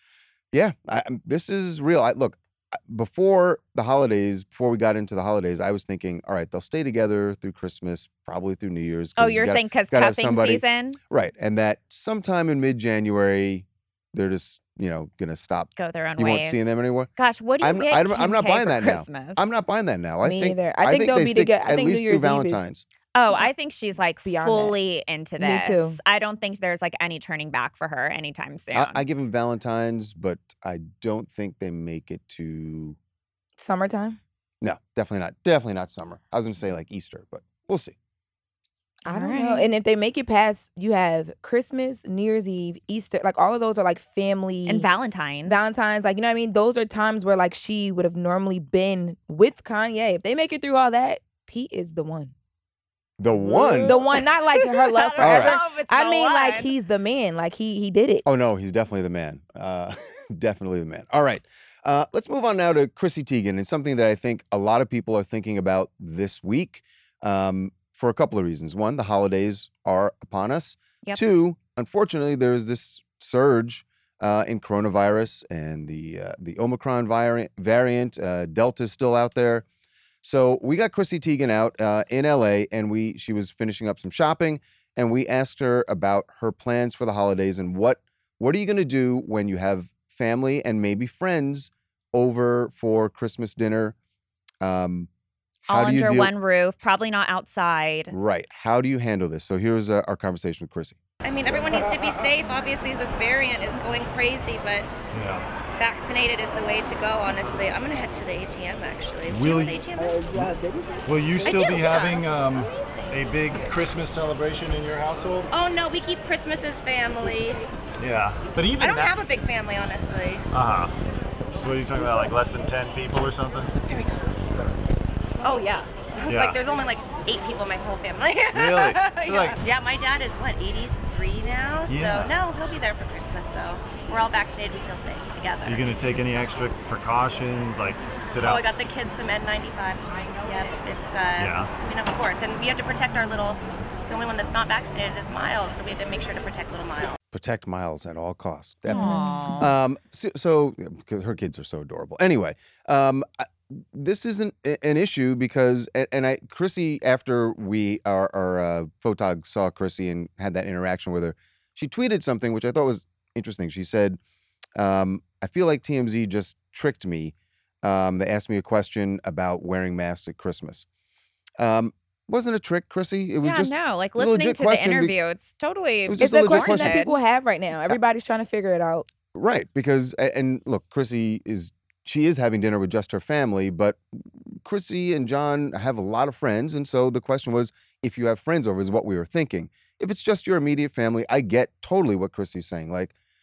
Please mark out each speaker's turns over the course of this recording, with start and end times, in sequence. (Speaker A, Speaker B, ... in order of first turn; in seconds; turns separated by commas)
Speaker A: 0.5-22.9, Speaker B: 9.2-11.0, Speaker B: 15.8-19.5, Speaker C: 20.2-22.7, Speaker B: 23.1-29.0, Speaker C: 24.2-24.8, Speaker C: 25.4-26.0, Speaker A: 28.7-33.0, Speaker C: 33.6-34.2, Speaker A: 34.6-38.0, Speaker C: 39.1-44.9, Speaker B: 39.1-39.7, Speaker B: 44.7-45.6, Speaker C: 45.5-52.3, Speaker A: 53.2-54.0, Speaker B: 53.4-56.7, Speaker C: 53.4-58.3, Speaker A: 55.2-55.6, Speaker A: 58.3-79.7, Speaker A: 80.2-94.0, Speaker A: 94.6-95.1, Speaker A: 95.7-96.3, Speaker B: 95.7-98.1, Speaker A: 98.1-101.0, Speaker D: 101.2-104.9, Speaker E: 105.1-105.5, Speaker D: 105.8-110.5, Speaker E: 109.3-109.8, Speaker E: 111.0-115.5, Speaker D: 111.4-112.3, Speaker D: 115.5-117.7, Speaker E: 118.0-119.1, Speaker D: 118.8-120.5, Speaker E: 120.5-121.0, Speaker E: 121.5-123.7, Speaker D: 123.9-124.2, Speaker D: 125.4-135.9, Speaker E: 126.3-126.6, Speaker E: 128.5-129.6, Speaker E: 131.9-132.3, Speaker E: 135.7-138.8, Speaker D: 138.4-147.2, Speaker E: 141.4-141.7, Speaker A: 147.3-164.2, Speaker B: 148.9-149.7, Speaker C: 148.9-149.3, Speaker A: 164.8-170.9, Speaker A: 171.6-175.2, Speaker B: 173.4-177.2, Speaker A: 176.1-177.0, Speaker C: 176.2-179.1, Speaker A: 179.3-193.1